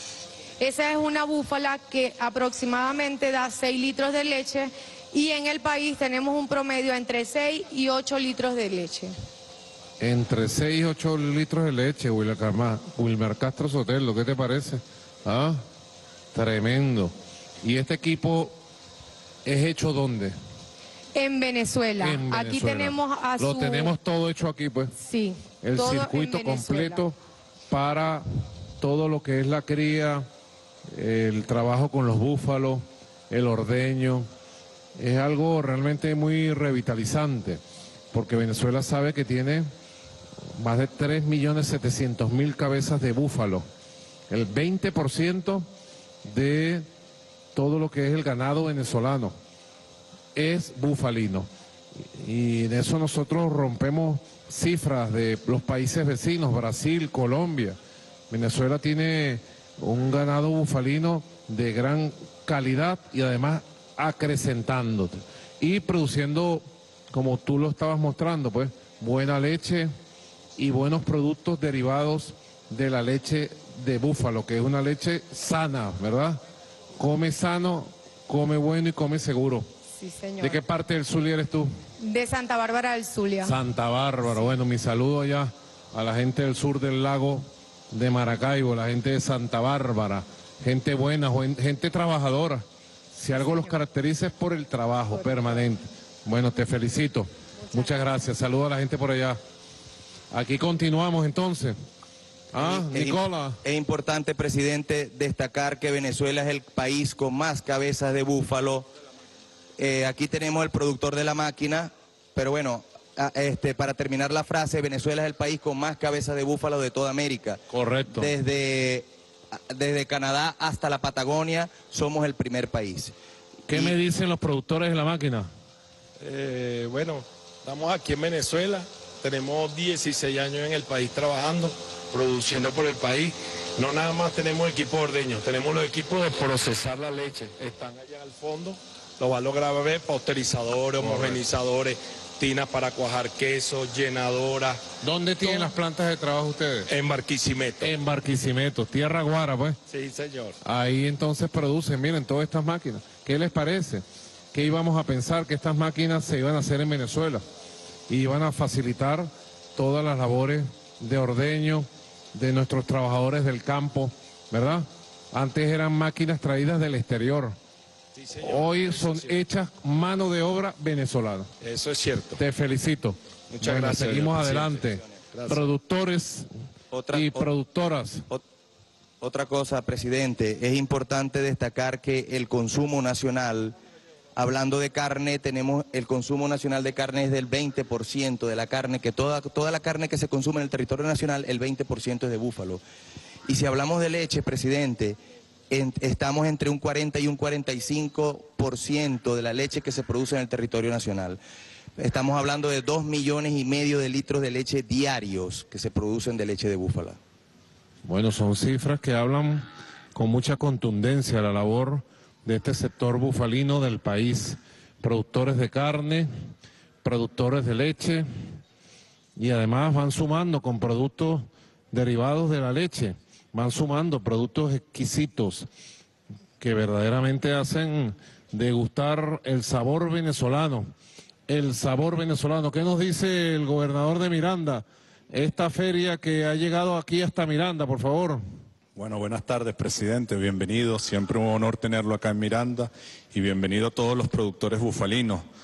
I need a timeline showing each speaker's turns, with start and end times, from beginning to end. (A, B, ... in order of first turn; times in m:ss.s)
0:00.6-0:09.1 A
0:10.0-0:15.6 B
0:16.3-0:18.6 B
0:19.4-0:20.4 B
0:21.2-0:23.9 A
0:22.0-0:25.0 B
0:25.0-0:27.0 A
0:25.6-0:27.2 B
0:27.7-0:28.2 B
0:28.8-0:30.3 B
0:30.9-0:34.3 B
0:35.0-0:37.6 B
0:38.1-0:39.7 B
0:40.5-0:43.7 B
0:44.3-0:45.7 B
0:46.2-0:46.9 B
0:47.6-0:49.4 B
0:50.4-0:51.5 B
0:52.0-0:57.8 B
0:58.3-1:09.9 B
1:10.6-1:16.4 B
1:17.0-1:19.7 B
1:20.0-1:20.6 A
1:20.4-1:21.7 B
1:22.0-1:23.6 A
1:23.4-1:39.4 B
1:33.3-1:33.7 A
1:40.3-1:41.8 B
1:42.5-1:43.6 B
1:42.6-1:48.9 C
1:49.8-2:03.1 C
1:57.7-1:58.3 B
2:03.7-2:05.5 B
2:06.2-2:24.8 D
2:21.0-2:21.4 B
2:25.0-2:26.9 B
2:27.0-2:27.9 D
2:27.8-2:29.8 B
2:30.6-2:37.4 B
2:38.1-2:47.6 B
2:48.2-2:49.1 D
2:48.4-2:51.5 B
2:51.6-2:52.4 D
2:52.4-2:56.5 B
2:53.8-2:54.6 D
2:56.9-2:57.5 C
2:57.1-2:58.2 B
2:59.2-3:03.8 C
3:04.4-3:12.8 C
3:13.5-3:15.2 C
3:15.7-3:21.4 C
3:22.0-3:27.2 C
3:28.0-3:36.3 B
3:37.0-3:38.3 B
3:39.4-3:45.7 B
3:46.6-3:50.9 B
3:51.5-3:58.4 B
3:59.0-4:05.5 E